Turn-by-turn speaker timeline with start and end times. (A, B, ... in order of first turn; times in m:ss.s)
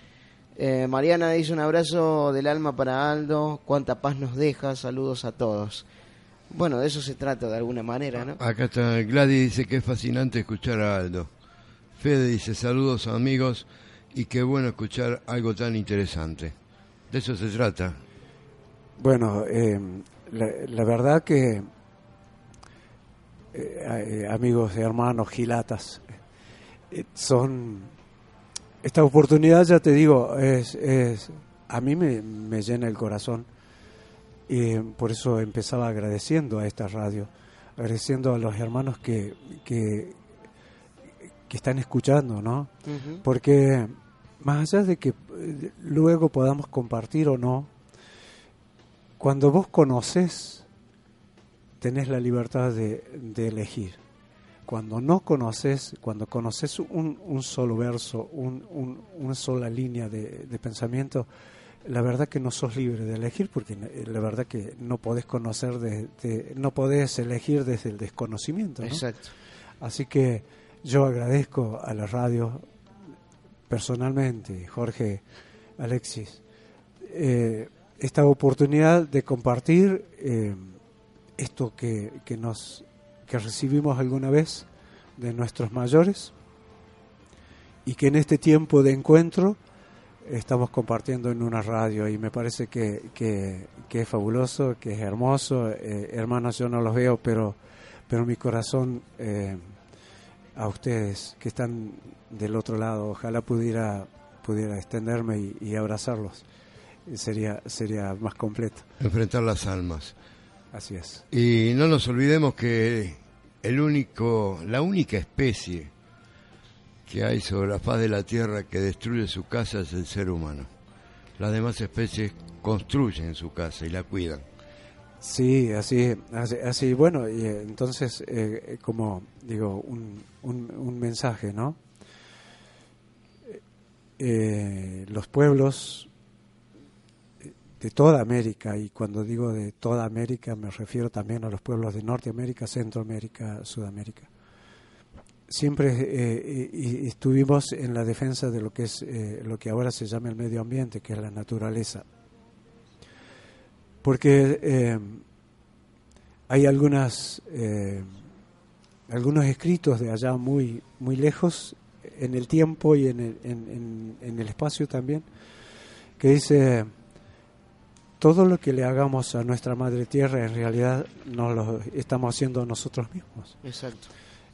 0:00.6-0:05.8 A
0:06.5-0:08.4 A
0:08.4-0:11.3 B
0:12.0-0:16.6 B
0:17.1-0:18.0 B
0:19.0-0:21.7 C
0:23.5-0:26.1 C
0:26.9-0:27.9 C
0:28.8-0:33.5 C
0:34.5-0:40.2 C
0:41.5-0:42.7 C
0:42.9-0:43.2 A
0:43.2-0:47.7 C
0:49.2-0:50.7 C
0:51.8-0:54.0 C
0:54.7-1:01.3 C
1:01.8-1:09.0 C
1:08.8-1:09.3 A
1:09.8-1:12.6 C
1:13.7-1:15.2 C
1:15.8-1:16.4 C
1:17.0-1:20.8 C
1:21.4-1:26.3 C
1:27.8-1:29.6 C
1:30.2-1:37.6 C
1:38.1-1:39.7 C
1:40.6-1:46.4 C
1:47.1-1:48.9 C
1:49.0-1:50.1 B
1:50.7-1:51.2 C
1:51.3-1:55.9 B
1:57.1-2:00.7 B
2:01.4-2:04.4 B
2:05.2-2:11.8 C
2:14.2-2:16.1 C
2:17.4-2:24.3 C
2:25.5-2:32.1 C
2:34.0-2:35.2 C
2:36.5-2:38.3 C
2:39.1-2:45.3 C
2:46.2-2:46.9 C
2:48.2-2:53.6 C
2:53.6-2:54.1 A